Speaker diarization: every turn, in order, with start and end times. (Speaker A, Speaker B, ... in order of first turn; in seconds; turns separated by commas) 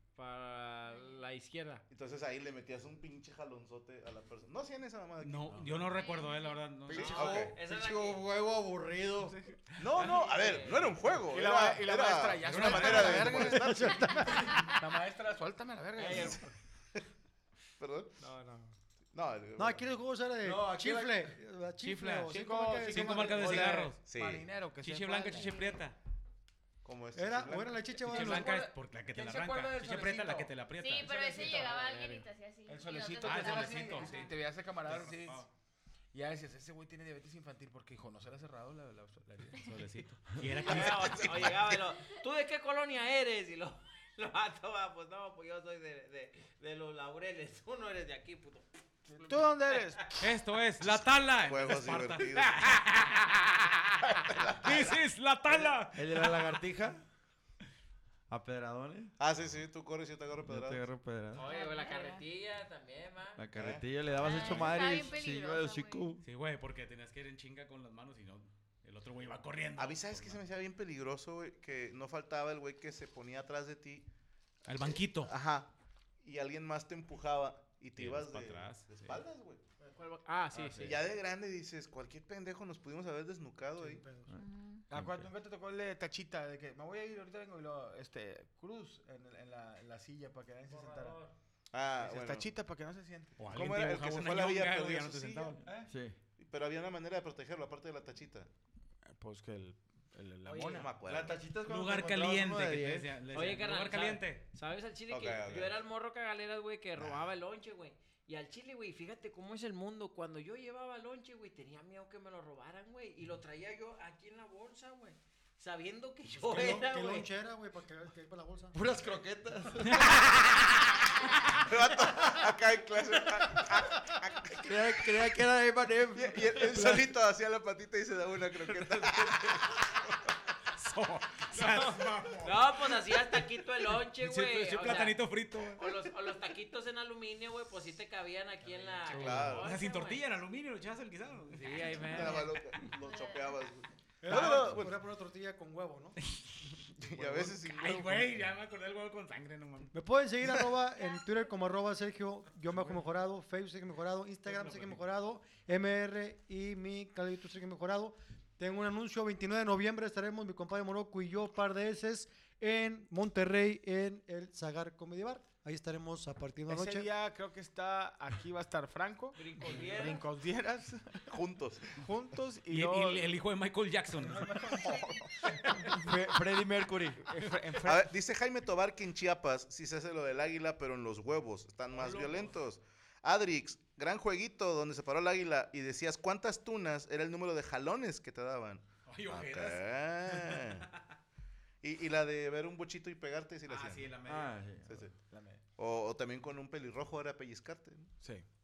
Speaker A: 0.2-1.8, Speaker B: 0.9-1.2, Speaker C: 1.9-5.8, Speaker D: 5.2-7.5, Speaker B: 5.8-6.7, Speaker A: 6.9-8.3, Speaker C: 6.9-8.5, Speaker E: 9.2-9.6, Speaker D: 9.7-10.2, Speaker C: 9.8-14.4, Speaker A: 10.0-10.9, Speaker E: 11.2-13.8, Speaker D: 12.4-13.5, Speaker F: 13.0-14.7, Speaker E: 14.6-16.5, Speaker A: 16.0-16.5, Speaker C: 17.8-18.2, Speaker E: 18.2-18.7, Speaker C: 19.1-19.9, Speaker F: 19.6-23.9, Speaker E: 20.4-21.3, Speaker D: 21.8-22.3, Speaker E: 22.3-25.6, Speaker D: 22.8-24.0, Speaker C: 24.1-24.5, Speaker D: 24.8-26.0, Speaker B: 25.3-25.8, Speaker C: 26.8-27.9, Speaker F: 27.2-28.6, Speaker D: 28.0-31.7, Speaker E: 28.1-30.5, Speaker B: 30.7-34.3, Speaker E: 31.1-32.1, Speaker A: 31.1-32.2, Speaker E: 32.7-35.5, Speaker D: 33.2-34.3, Speaker D: 34.9-35.5, Speaker E: 36.1-39.7, Speaker D: 39.6-41.6, Speaker A: 40.6-50.0, Speaker C: 40.7-41.6, Speaker E: 49.1-50.0, Speaker D: 50.2-54.0, Speaker C: 50.8-52.8, Speaker C: 54.1-55.7, Speaker D: 54.6-56.6, Speaker G: 55.9-57.0, Speaker G: 58.3-59.1, Speaker C: 59.2-60.8, Speaker G: 60.4-61.5, Speaker A: 61.4-63.5, Speaker B: 61.4-62.3, Speaker G: 63.4-66.2, Speaker C: 63.5-64.8, Speaker B: 64.2-66.1, Speaker D: 66.2-70.4, Speaker C: 69.8-74.1, Speaker D: 74.7-75.3, Speaker C: 74.7-79.6, Speaker D: 78.0-79.2, Speaker A: 80.0-81.0, Speaker E: 80.7-80.9, Speaker C: 80.7-84.0, Speaker F: 83.8-84.3, Speaker B: 84.4-84.8, Speaker E: 84.9-91.2, Speaker G: 85.0-85.2, Speaker A: 90.7-91.3, Speaker C: 91.7-92.5, Speaker E: 92.0-93.4, Speaker D: 93.4-95.6, Speaker C: 93.5-95.6, Speaker E: 95.6-95.9, Speaker G: 95.8-96.2, Speaker C: 96.4-98.5, Speaker E: 99.1-101.0, Speaker A: 100.4-100.9, Speaker C: 100.8-101.4, Speaker G: 101.0-103.2, Speaker D: 101.7-104.4, Speaker A: 103.3-117.3, Speaker C: 105.1-105.8, Speaker C: 107.0-107.2, Speaker F: 116.5-118.8, Speaker G: 118.7-120.3, Speaker D: 119.9-120.5, Speaker C: 121.5-125.1, Speaker G: 124.6-127.1, Speaker C: 126.2-129.7, Speaker D: 128.7-129.8, Speaker D: 130.8-133.4, Speaker A: 131.6-135.2, Speaker D: 134.1-136.1, Speaker A: 135.8-140.2, Speaker E: 138.8-139.5, Speaker C: 139.1-139.7, Speaker D: 139.2-142.5, Speaker A: 141.5-142.6, Speaker C: 142.1-144.9, Speaker B: 143.0-143.6, Speaker F: 144.2-146.2, Speaker D: 144.3-144.8, Speaker C: 147.0-148.4, Speaker E: 147.1-147.5, Speaker D: 147.7-149.9, Speaker F: 149.9-167.1, Speaker D: 154.5-155.0, Speaker E: 166.7-171.3, Speaker A: 169.4-170.3, Speaker C: 171.3-171.9, Speaker E: 171.9-173.3, Speaker D: 172.7-174.8, Speaker E: 174.2-176.6, Speaker C: 174.8-175.2, Speaker G: 176.0-177.2, Speaker E: 177.1-178.1, Speaker C: 177.8-190.9, Speaker D: 181.9-182.5, Speaker D: 189.1-190.9, Speaker C: 191.8-194.1, Speaker D: 193.7-194.6, Speaker G: 194.3-195.0, Speaker C: 194.9-195.1, Speaker E: 195.2-195.6, Speaker C: 195.8-198.1